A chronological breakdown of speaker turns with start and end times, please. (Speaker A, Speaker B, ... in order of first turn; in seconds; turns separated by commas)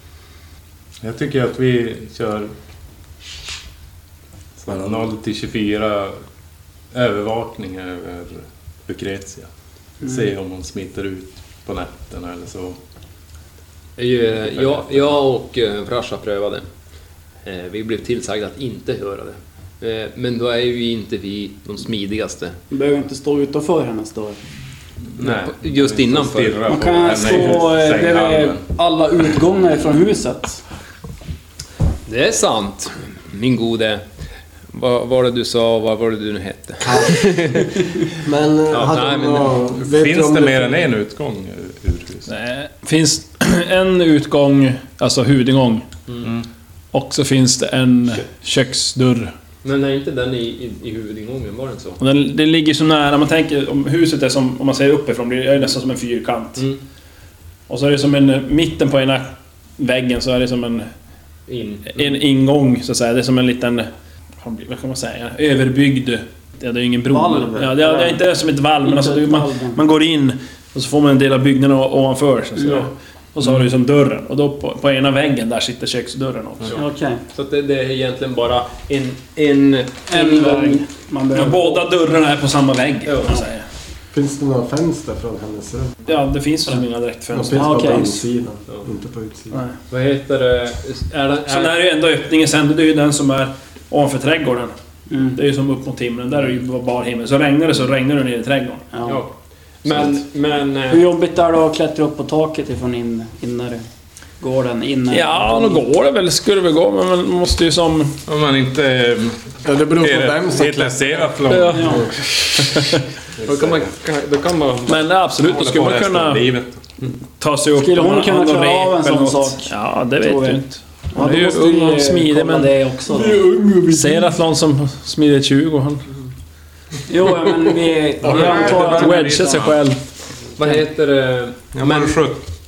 Speaker A: 1.0-2.5, Speaker A: 4.6-6.2, Speaker A: 6.9-9.5, Speaker A: 10.0-12.8, Speaker B: 14.0-16.6, Speaker A: 14.5-15.2, Speaker B: 17.4-22.6, Speaker C: 22.7-24.4, Speaker A: 25.1-28.6, Speaker B: 25.2-27.6, Speaker C: 26.7-30.6, Speaker B: 32.1-34.0, Speaker B: 34.7-37.9, Speaker D: 36.8-40.7, Speaker B: 38.7-39.5, Speaker A: 39.8-42.3, Speaker E: 42.3-45.9, Speaker A: 46.2-46.5, Speaker E: 46.9-49.3, Speaker B: 49.6-52.0, Speaker E: 52.0-56.6, Speaker E: 57.7-60.9, Speaker B: 61.5-62.0, Speaker E: 61.9-63.9, Speaker E: 64.4-76.8, Speaker C: 67.1-68.2, Speaker C: 68.8-69.8, Speaker C: 72.6-72.9, Speaker C: 76.7-77.2, Speaker B: 77.3-80.8, Speaker C: 80.1-81.9, Speaker E: 81.3-83.6, Speaker B: 83.1-83.4, Speaker D: 84.1-86.0, Speaker E: 86.0-88.2, Speaker D: 87.3-89.6, Speaker C: 87.5-88.2, Speaker B: 89.9-91.8, Speaker E: 91.5-94.7, Speaker C: 95.1-95.4, Speaker E: 95.3-98.9, Speaker C: 98.9-99.2, Speaker B: 99.0-99.3, Speaker B: 99.8-101.1, Speaker C: 100.9-103.9, Speaker C: 104.4-105.8, Speaker E: 105.1-108.2, Speaker A: 108.3-112.1, Speaker D: 109.6-111.3, Speaker E: 111.5-113.0, Speaker C: 111.7-112.0, Speaker A: 113.4-113.9, Speaker B: 113.4-115.0, Speaker E: 114.9-116.4, Speaker A: 115.4-117.0, Speaker E: 117.4-126.1, Speaker C: 117.8-123.5, Speaker D: 123.7-124.0, Speaker C: 127.1-129.5, Speaker A: 128.2-129.9, Speaker E: 128.3-130.0, Speaker B: 130.6-132.1, Speaker A: 131.7-132.4